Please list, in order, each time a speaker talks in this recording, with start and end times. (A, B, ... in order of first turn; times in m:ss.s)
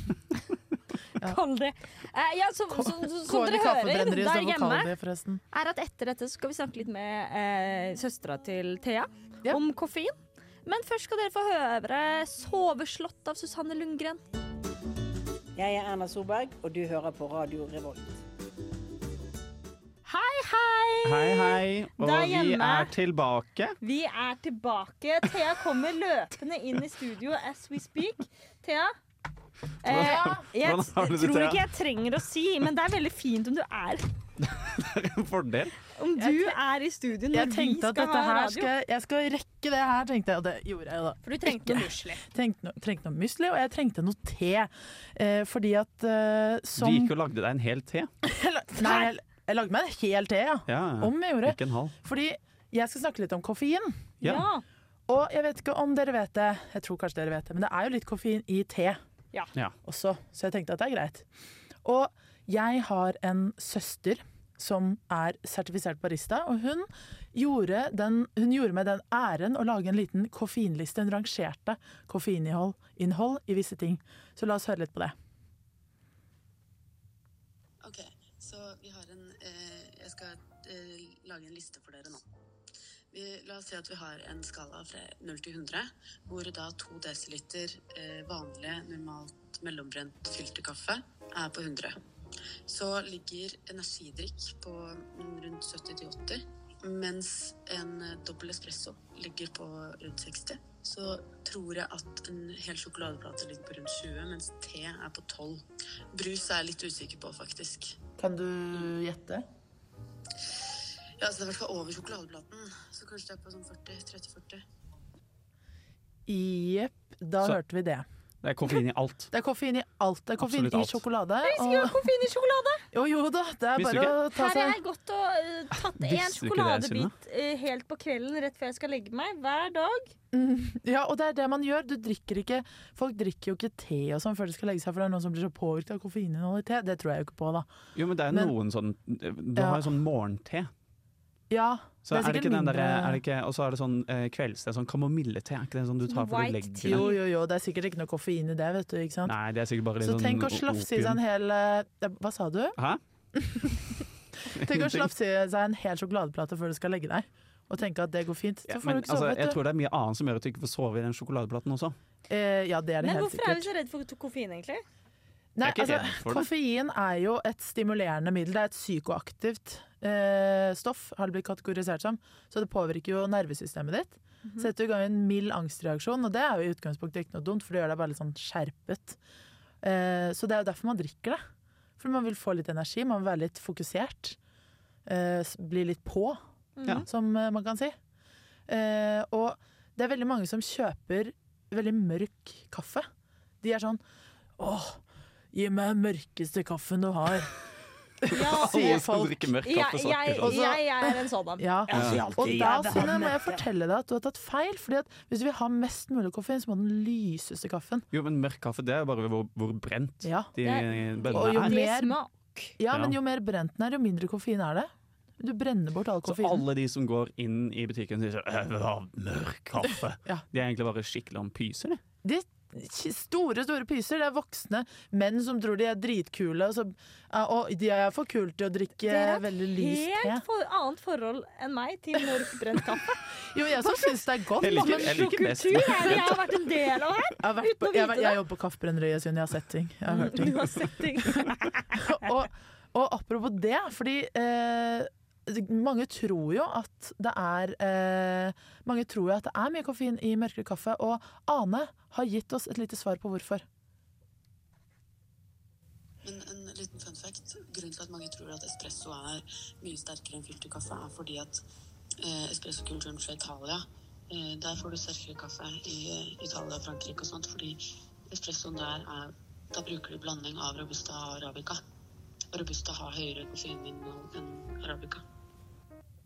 0:01.2-0:04.9 A
0:02.7-0:05.4 B
0:05.5-0:14.2 A
0:15.6-0:18.2 C
0:20.0-0:22.9 A
0:21.0-0:23.8 D
0:23.8-0:28.9 A
0:29.8-0:34.1 A
0:29.9-0:31.6 D
0:29.9-0:30.4 B
0:34.4-0:35.7 D
0:36.0-0:38.7 A
0:36.2-0:36.6 B
0:37.3-0:47.1 B
0:41.2-0:42.2 A
0:46.8-0:48.1 D
0:48.2-0:54.1 B
0:48.8-0:49.1 A
0:50.7-0:51.9 D
0:54.2-0:54.4 D
0:54.2-0:54.6 A
0:55.1-0:59.0 B
0:59.8-1:01.2 B
1:01.8-1:15.1 B
1:17.8-1:22.2 E
1:23.1-1:32.0 E
1:32.7-1:45.6 E
1:46.1-1:48.0 E
1:48.2-1:49.4 B
1:51.2-1:54.6 E
1:56.3-1:58.0 B
1:58.4-1:59.3 D
1:59.3-2:02.1 B
2:00.4-2:01.0 D
2:01.4-2:02.8 A
2:02.9-2:04.8 B
2:03.8-2:04.2 D
2:04.3-2:10.1 A
2:05.9-2:07.1 D
2:10.3-2:17.7 B
2:18.0-2:20.7 D
2:19.6-2:19.9 B
2:21.5-2:23.2 B
2:22.0-2:27.0 D
2:26.1-2:27.2 A
2:26.8-2:29.3 B
2:29.2-2:31.2 D
2:30.0-2:32.8 B
2:33.3-2:39.6 B
2:34.5-2:35.1 D
2:38.7-2:42.0 D
2:42.3-2:43.7 B
2:43.0-2:44.8 A
2:45.6-2:59.2 B
2:45.6-2:46.5 D
2:59.8-3:01.4 B
3:02.0-3:04.4 B
3:05.0-3:06.4 B
3:06.8-3:07.0 A
3:07.0-3:08.0 B
3:08.7-3:13.1 B
3:13.6-3:14.0 B
3:14.6-3:15.0 B
3:15.5-3:17.5 B
3:18.2-3:19.4 B
3:18.3-3:19.0 A
3:18.3-3:20.6 D
3:19.6-3:23.6 A
3:20.4-3:28.0 B
3:21.9-3:22.9 D
3:28.1-3:31.8 D
3:30.2-3:30.5 B
3:30.6-3:32.7 A
3:31.3-3:32.2 B
3:32.8-3:36.6 B
3:32.9-3:33.2 D
3:36.2-3:42.0 D
3:42.2-3:50.4 B
3:49.0-3:53.2 A
3:53.4-3:55.3 B
3:53.8-3:58.4 A
3:54.6-3:56.5 D
3:57.4-4:00.9 B
4:00.1-4:02.2 A
4:01.9-4:13.6 B
4:16.2-4:21.6 E
4:22.2-4:31.8 E
4:32.5-4:35.2 E